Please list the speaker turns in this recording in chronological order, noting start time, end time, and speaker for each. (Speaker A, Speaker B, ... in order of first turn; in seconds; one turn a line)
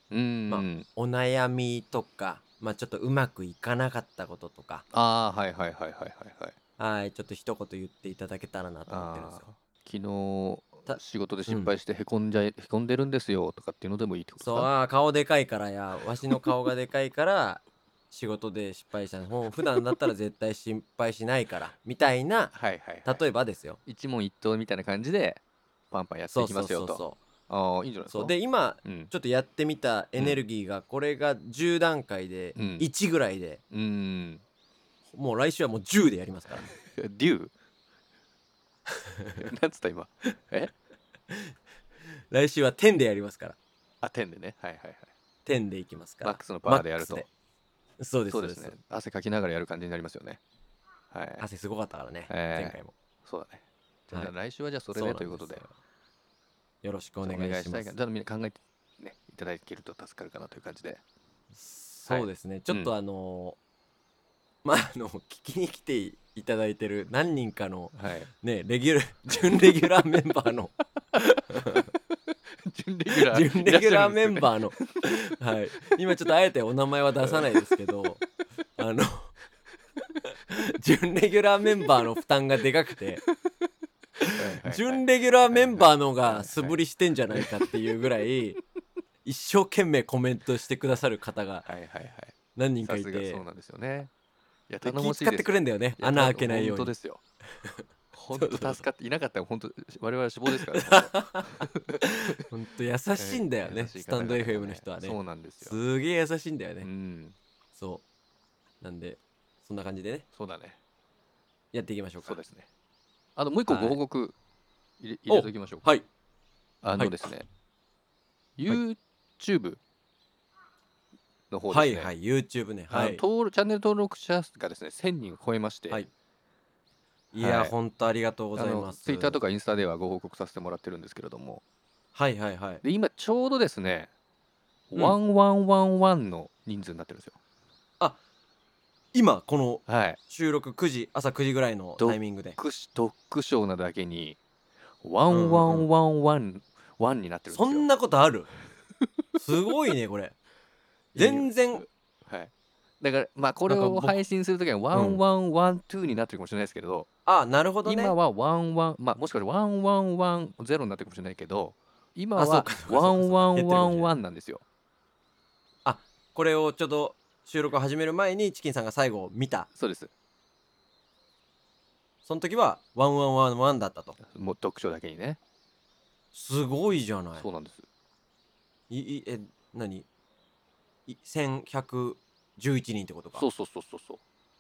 Speaker A: 0.1-0.9
Speaker B: 0.5-4.8
Speaker A: 4.9-6.5
Speaker B: 6.8-9.4
Speaker A: 8.9-14.7
Speaker B: 10.9-11.8
Speaker B: 14.4-22.5
Speaker A: 22.5-23.2
Speaker B: 23.1-23.8
Speaker A: 23.9-29.1
Speaker B: 26.3-27.2
Speaker B: 28.1-33.6
Speaker A: 32.5-32.9
Speaker A: 33.7-34.4
Speaker B: 35.1-36.7
Speaker A: 36.7-37.5
Speaker B: 39.1-39.5
Speaker A: 39.4-40.7
Speaker B: 42.3-43.6
Speaker A: 44.0-45.1
Speaker B: 45.5-47.3
Speaker A: 46.2-47.3
Speaker B: 48.0-48.8
Speaker A: 48.3-50.4
Speaker A: 51.1-51.4
Speaker B: 51.4-52.9
Speaker A: 52.3-55.6
Speaker B: 54.9-55.8
Speaker B: 56.8-57.9
Speaker A: 57.2-61.0
Speaker B: 61.5-63.6
Speaker A: 62.1-62.9
Speaker B: 64.6-71.9
Speaker A: 67.9-68.3
Speaker A: 72.5-74.9
Speaker B: 73.1-78.2
Speaker A: 77.2-77.7
Speaker B: 78.8-79.3
Speaker B: 80.5-83.2
Speaker B: 84.2-88.6
Speaker A: 84.3-86.8
Speaker A: 87.3-87.8
Speaker B: 89.2-91.7
Speaker A: 91.7-94.1
Speaker B: 92.6-93.4
Speaker A: 94.7-97.2
Speaker B: 94.8-96.9
Speaker B: 97.5-98.8
Speaker A: 98.1-102.4
Speaker B: 100.5-106.9
Speaker A: 103.2-105.8
Speaker A: 106.8-107.3
Speaker B: 107.8-108.0
Speaker B: 108.8-110.3
Speaker A: 110.3-110.8
Speaker B: 111.7-112.4
Speaker A: 112.2-112.7
Speaker A: 113.3-114.3
Speaker B: 113.7-114.0
Speaker A: 115.0-115.8
Speaker B: 115.3-116.1
Speaker A: 116.8-117.5
Speaker B: 116.9-117.3
Speaker A: 118.6-119.8
Speaker A: 121.5-122.1
Speaker B: 121.7-123.2
Speaker A: 122.9-126.0
Speaker B: 127.3-129.4
Speaker A: 127.4-127.8
Speaker A: 128.6-131.6
Speaker B: 132.2-132.8
Speaker A: 132.8-134.1
Speaker A: 134.9-137.4
Speaker B: 139.1-142.6
Speaker A: 139.8-140.2
Speaker A: 142.0-144.4
Speaker A: 145.0-147.9
Speaker B: 145.3-145.9
Speaker B: 147.5-148.5
Speaker B: 149.3-150.3
Speaker A: 151.2-151.5
Speaker B: 151.2-151.8
Speaker A: 152.3-157.1
Speaker B: 153.7-154.2
Speaker B: 154.9-155.2
Speaker B: 157.3-158.2
Speaker A: 157.8-164.6
Speaker B: 162.3-164.1
Speaker B: 165.8-169.7
Speaker A: 169.8-170.1
Speaker B: 172.3-174.2
Speaker A: 174.2-175.4
Speaker B: 176.3-177.5
Speaker A: 177.3-177.8
Speaker B: 178.9-180.1
Speaker B: 181.1-183.4
Speaker A: 183.3-184.2